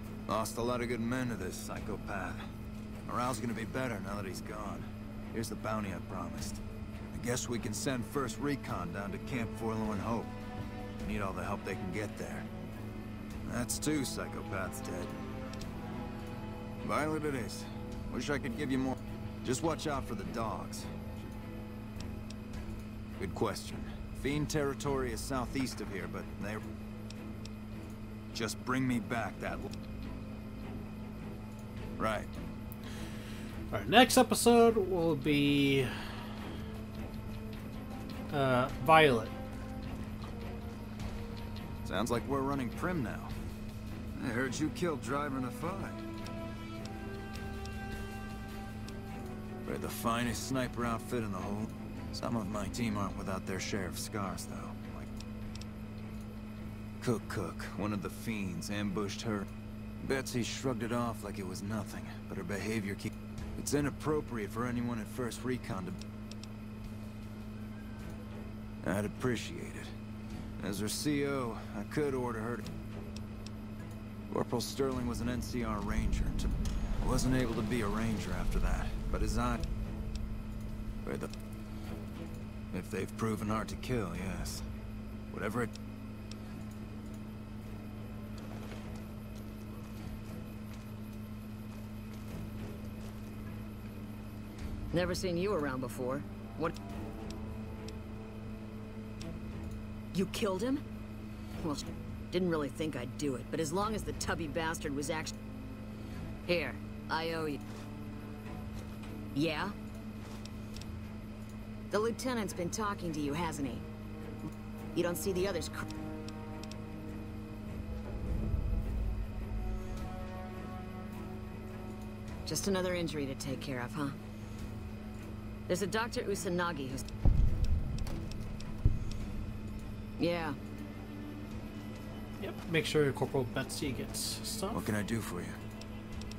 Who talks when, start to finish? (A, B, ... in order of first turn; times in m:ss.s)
0:00.3-0:02.4 A
0:03.0-0:06.6 A
0:07.1-0:10.3 A
0:11.0-0:12.5 A
0:13.4-0:15.1 A
0:16.8-0:21.3 A
0:23.2-0:26.6 A
0:28.3-0:29.7 A
0:32.0-0:32.3 A
0:33.7-0:35.9 B
0:38.3-0:39.3 B
0:41.8-0:43.3 A
0:44.2-0:46.0 A
0:49.6-0:55.1 A
0:57.0-0:59.5 A
1:00.0-1:06.0 A
1:08.8-1:09.9 A
1:10.6-1:12.6 A
1:14.3-1:19.6 A
1:21.0-1:21.3 A
1:22.7-1:24.6 A
1:25.3-1:25.7 A
1:34.9-1:36.7 C
1:40.1-1:40.8 C
1:41.6-1:45.3 C
1:46.4-1:47.6 C
1:49.4-1:49.7 C
1:51.9-1:53.8 C
1:54.9-1:55.8 C
2:02.4-2:04.1 C
2:05.7-2:07.0 C
2:10.2-2:10.6 C
2:12.4-2:14.9 B
2:14.7-2:15.6 A